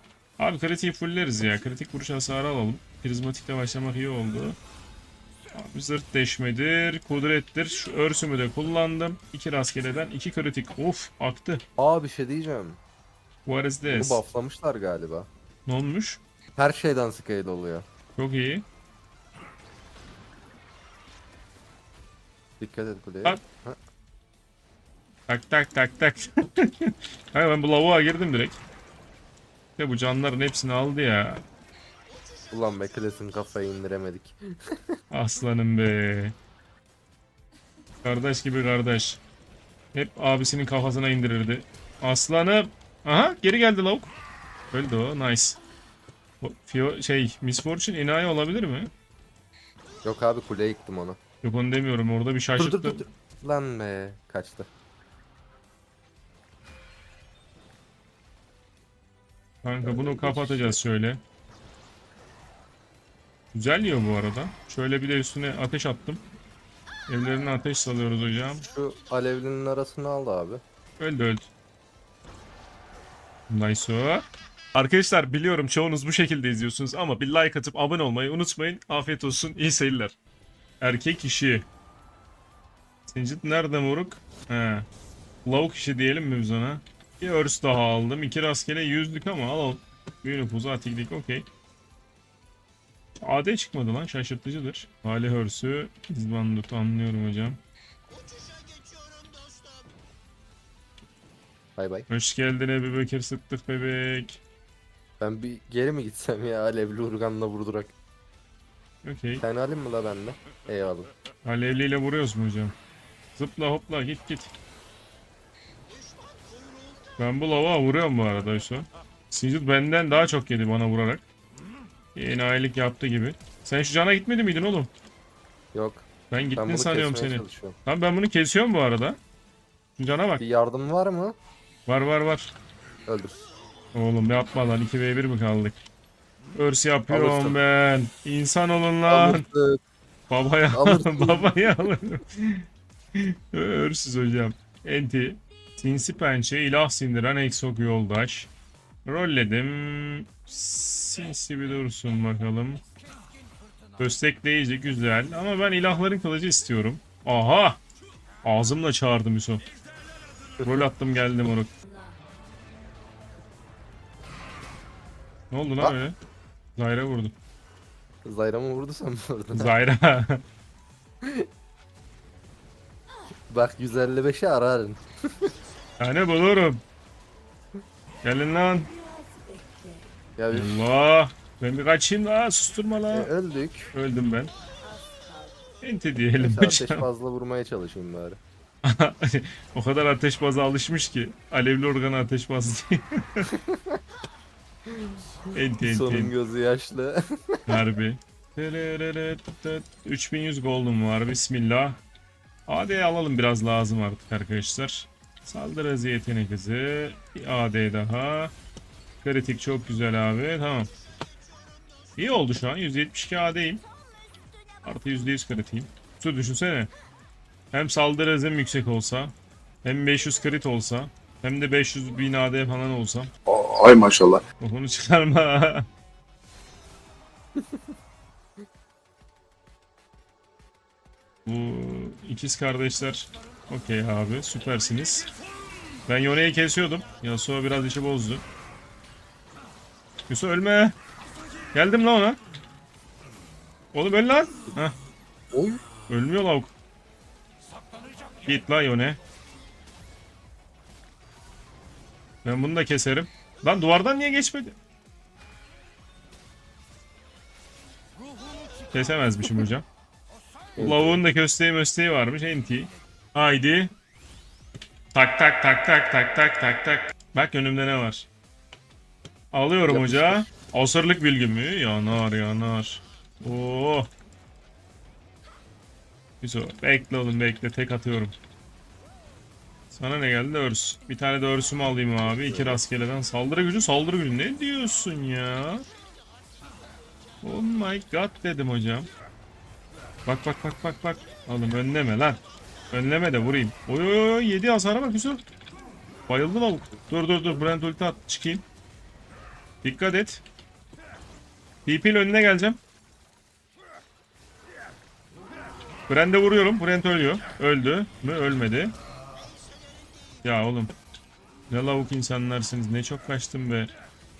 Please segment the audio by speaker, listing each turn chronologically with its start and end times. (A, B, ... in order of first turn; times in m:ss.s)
0:00.4-0:04.6 A
0:05.5-0:11.6 A
0:11.8-0:12.8 B
0:13.5-0:14.2 A
0:13.9-0:15.3 B
0:15.6-0:16.2 A
0:16.6-0:17.9 B
0:18.2-0:18.6 A
0:22.6-0:23.8 B
0:25.3-0:28.6 A
0:29.8-0:31.4 A
0:32.5-0:34.8 B
0:35.1-0:36.4 A
0:38.0-0:39.2 A
0:39.9-0:44.1 A
0:44.7-0:45.6 A
0:46.4-0:48.9 A
0:50.0-0:51.2 B
0:51.4-0:53.0 A
0:52.6-0:54.7 B
0:59.6-1:01.2 A
0:59.8-1:00.8 B
1:03.5-1:06.2 A
1:07.1-1:08.7 A
1:08.7-1:10.6 B
1:11.0-1:11.5 A
1:13.5-1:20.2 A
1:20.8-1:21.7 A
1:23.1-1:24.8 A
1:25.4-1:31.4 A
1:33.2-1:37.6 A
1:41.8-1:42.1 B
1:42.1-1:44.4 A
1:45.2-1:47.9 B
1:49.0-1:49.4 A
1:49.4-1:51.1 B
1:51.4-1:52.7 A
1:53.3-1:54.5 A
1:57.2-2:01.2 A
2:02.1-2:04.9 A
2:05.7-2:07.8 B
2:06.3-2:09.2 A
2:10.0-2:10.4 A
2:10.4-2:11.4 B
2:11.9-2:12.5 A
2:13.1-2:13.4 B
2:13.9-2:15.8 A
2:16.5-2:19.4 A
2:17.1-2:17.6 B
2:19.1-2:19.8 B
2:20.3-2:28.5 A
2:20.7-2:21.8 B
2:29.0-2:32.8 A
2:34.0-2:37.8 A
2:38.4-2:39.6 A
2:40.6-2:41.7 A
2:45.5-2:46.2 A
2:46.8-2:47.3 A
2:48.2-2:49.7 B
2:49.5-2:50.4 A
2:53.5-2:55.5 B
2:56.0-2:56.8 A
2:58.2-2:58.9 A
3:00.4-3:00.7 B
3:00.5-3:03.3 A
3:03.1-3:03.9 B
3:03.9-3:04.5 A
3:05.8-3:07.0 A
3:06.4-3:08.4 B
3:08.8-3:13.5 A
3:13.5-3:14.0 B
3:15.5-3:16.3 A
3:15.8-3:17.8 B
3:17.7-3:22.0 A
3:22.7-3:28.5 A
3:29.2-3:30.9 A
3:32.2-3:33.8 A
3:34.8-3:36.9 A
3:37.7-3:43.3 A
3:44.6-3:45.8 A
3:51.4-3:55.3 A
3:56.1-3:58.4 A
4:00.3-4:01.0 A
4:01.7-4:02.4 A
4:03.9-4:04.9 A
4:05.5-4:05.8 B
4:06.1-4:06.7 A
4:08.4-4:09.2 A
4:12.4-4:14.8 A
4:18.9-4:19.9 A
4:20.8-4:21.2 B
4:20.8-4:23.9 A
4:25.1-4:28.3 A
4:29.5-4:34.1 A
4:29.9-4:30.5 B
4:36.4-4:38.3 A
4:39.9-4:45.8 A
4:42.2-4:42.8 B
4:47.4-4:49.1 A
4:50.2-4:52.4 A
4:52.9-4:55.4 A
4:56.3-4:58.6 A
4:59.8-5:00.4 A
5:01.8-5:02.8 A
5:06.1-5:08.9 A
5:10.4-5:10.9 A
5:11.7-5:13.9 A